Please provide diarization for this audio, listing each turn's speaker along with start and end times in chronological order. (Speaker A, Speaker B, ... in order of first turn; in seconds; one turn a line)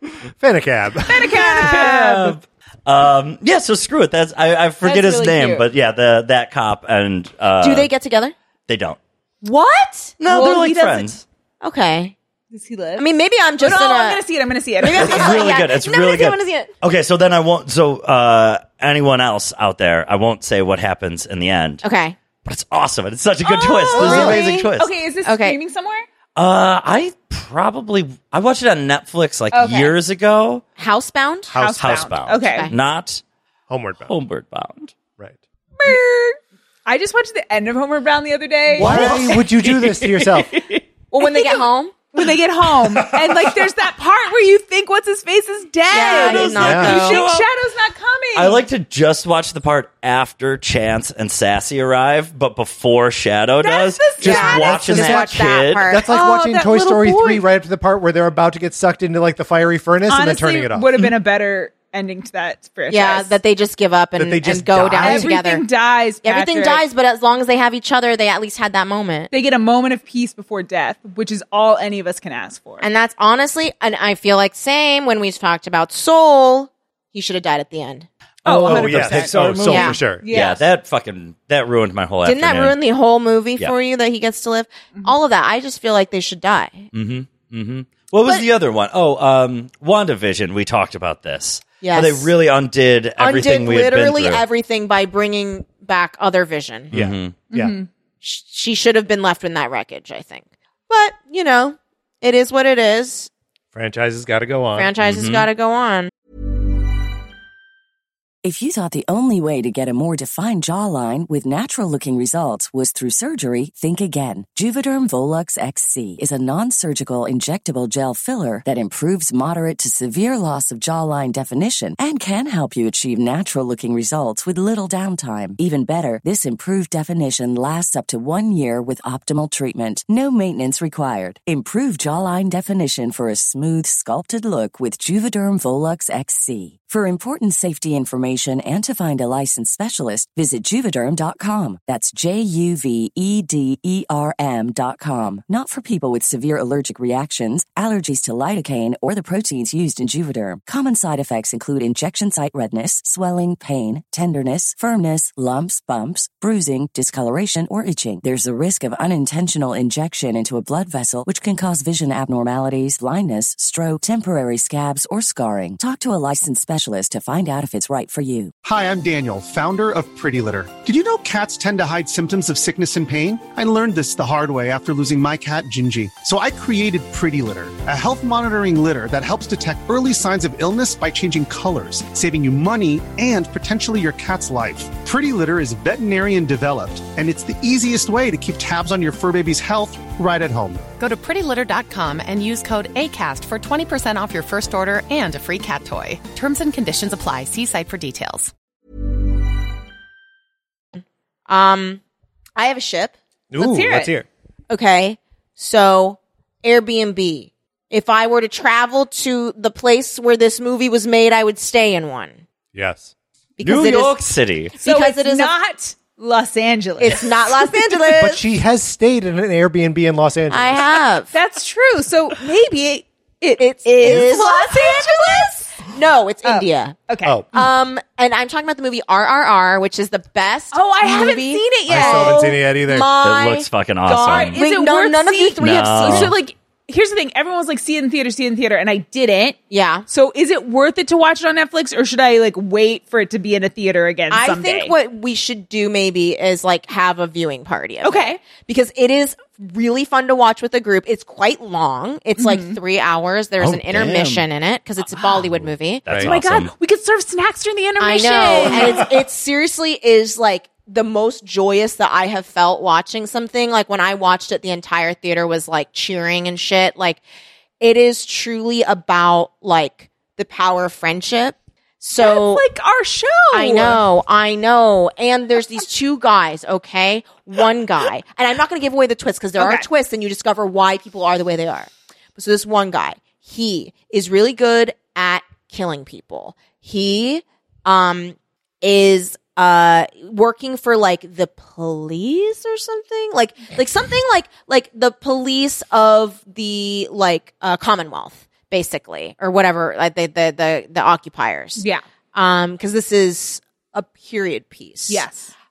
Speaker A: 0.4-1.4
Speaker B: 1.0-2.4
Speaker C: 1.3-7.9
Speaker B: 4.8-5.6
Speaker D: 7.6-8.3
Speaker C: 8.7-9.0
Speaker B: 9.4-11.2
Speaker C: 10.2-11.2
Speaker D: 11.6-12.1
Speaker B: 12.5-13.0
Speaker D: 13.0-14.2
Speaker B: 13.6-15.6
Speaker D: 14.8-16.7
Speaker C: 14.8-21.8
Speaker D: 21.8-22.1
Speaker C: 22.4-24.9
Speaker B: 23.4-26.1
Speaker D: 23.9-24.7
Speaker A: 24.1-24.3
Speaker D: 25.2-25.6
Speaker C: 26.4-30.6
Speaker B: 29.5-29.9
Speaker D: 30.8-31.5
Speaker B: 31.5-32.7
Speaker A: 31.5-32.1
Speaker C: 31.8-33.2
Speaker D: 32.4-32.7
Speaker A: 33.7-34.1
Speaker C: 34.1-34.9
Speaker B: 35.8-48.6
Speaker C: 38.7-39.3
Speaker A: 38.8-40.6
Speaker D: 41.1-42.1
Speaker A: 43.0-43.4
Speaker D: 45.9-47.2
Speaker C: 46.0-47.5
Speaker A: 46.5-47.0
Speaker C: 48.3-56.0
Speaker B: 53.6-54.8
Speaker D: 54.2-56.1
Speaker A: 54.2-60.9
Speaker B: 56.0-57.5
Speaker B: 60.1-63.4
Speaker D: 62.9-65.7
Speaker A: 64.2-65.3
Speaker B: 65.0-66.8
Speaker D: 66.2-69.3
Speaker B: 69.3-72.8
Speaker D: 72.8-78.1
Speaker B: 78.4-80.6
Speaker A: 78.5-80.3
Speaker C: 78.5-82.8
Speaker D: 79.6-80.0
Speaker D: 82.2-86.9
Speaker C: 86.9-94.4
Speaker D: 91.8-92.3
Speaker D: 93.2-96.9
Speaker C: 96.9-97.3
Speaker A: 96.9-97.7
Speaker B: 97.5-97.9
Speaker D: 98.2-103.3
Speaker A: 103.7-104.9
Speaker D: 104.7-106.1
Speaker C: 105.0-105.5
Speaker E: 108.4-168.5
Speaker F: 168.6-190.8
Speaker G: 191.0-198.5
Speaker D: 201.5-202.0
Speaker D: 202.6-203.1
Speaker A: 203.5-204.3
Speaker B: 203.6-204.1
Speaker D: 204.7-212.4
Speaker A: 212.7-213.1
Speaker D: 213.6-214.1
Speaker C: 213.6-214.8
Speaker D: 214.8-215.5
Speaker B: 214.8-217.7
Speaker D: 217.0-218.4
Speaker A: 218.2-220.8
Speaker D: 220.5-221.3
Speaker B: 221.3-225.7
Speaker D: 223.6-227.0
Speaker B: 226.4-227.7
Speaker D: 227.5-236.3
Speaker B: 230.7-232.7
Speaker A: 231.9-233.1
Speaker C: 233.2-234.6
Speaker B: 234.1-239.6
Speaker C: 235.6-236.3
Speaker D: 239.7-240.1
Speaker B: 240.1-244.9
Speaker D: 244.3-256.2
Speaker B: 248.0-248.4
Speaker B: 252.4-252.8
Speaker C: 253.6-254.4
Speaker C: 255.6-256.7
Speaker A: 256.1-256.3
Speaker B: 256.1-259.1
Speaker D: 258.0-267.2
Speaker D: 267.8-272.6
Speaker B: 272.2-274.0
Speaker D: 273.5-305.2
Speaker B: 279.6-279.9
Speaker B: 301.8-302.0
Speaker B: 305.1-305.5